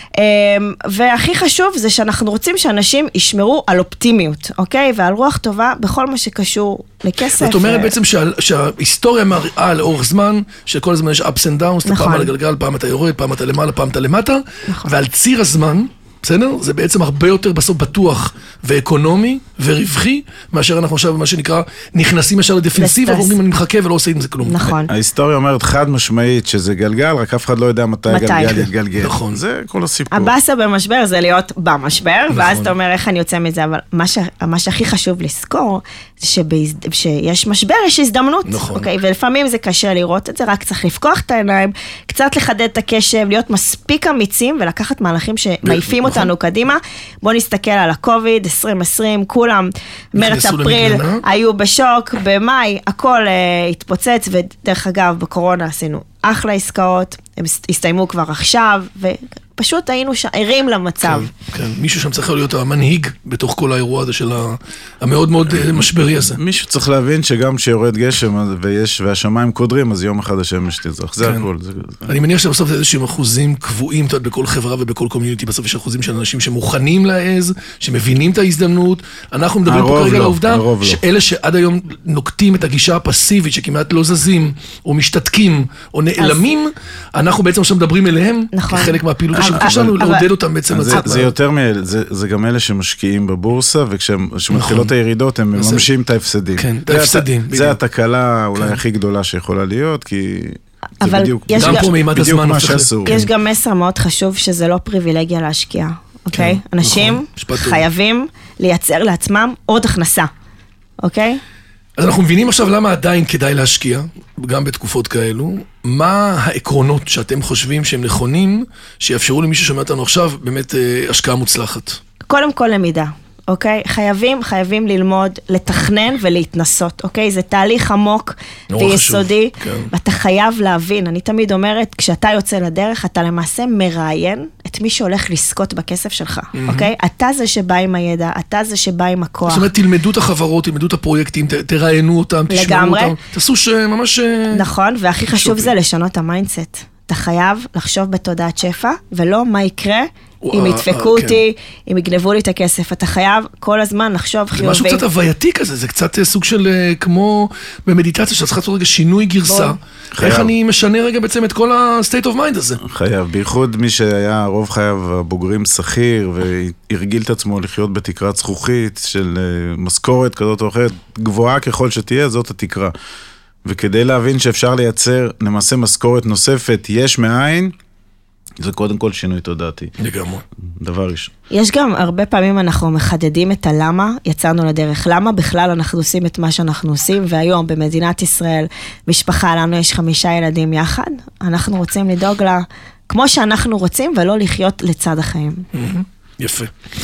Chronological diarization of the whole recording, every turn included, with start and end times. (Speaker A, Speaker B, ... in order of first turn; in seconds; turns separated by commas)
Speaker A: 0.1-7.9, Speaker B: 7.3-24.6, Speaker A: 11.9-12.3, Speaker A: 14.7-14.9, Speaker A: 22.8-23.4, Speaker A: 24.4-24.9, Speaker C: 24.7-30.3, Speaker A: 28.1-28.7, Speaker B: 29.0-29.4, Speaker A: 30.1-61.3, Speaker B: 32.3-32.7, Speaker B: 38.5-38.9, Speaker B: 45.6-46.3, Speaker B: 50.1-51.2, Speaker B: 61.0-66.4, Speaker C: 65.6-72.1, Speaker B: 72.1-91.3, Speaker C: 79.7-81.0, Speaker A: 86.2-86.5, Speaker A: 88.5-90.3, Speaker C: 89.4-90.0, Speaker C: 90.7-103.3, Speaker A: 90.9-91.3, Speaker B: 94.5-94.9, Speaker B: 95.5-95.9, Speaker B: 96.6-97.8, Speaker A: 101.0-101.9, Speaker B: 101.5-103.2, Speaker A: 103.1-110.3, Speaker B: 106.3-107.8, Speaker A: 111.0-111.4, Speaker B: 112.0-122.0, Speaker A: 122.3-139.7, Speaker B: 128.7-129.9, Speaker B: 136.5-136.9, Speaker B: 139.4-144.7, Speaker A: 142.5-143.2, Speaker A: 144.5-155.0, Speaker B: 145.3-145.7, Speaker B: 150.4-151.4, Speaker B: 154.5-162.8, Speaker A: 159.5-159.8, Speaker C: 160.1-160.5, Speaker C: 162.8-172.9, Speaker C: 173.6-177.7, Speaker C: 178.6-179.9, Speaker B: 180.0-180.4, Speaker C: 180.6-181.3, Speaker A: 181.5-195.7, Speaker B: 195.7-196.7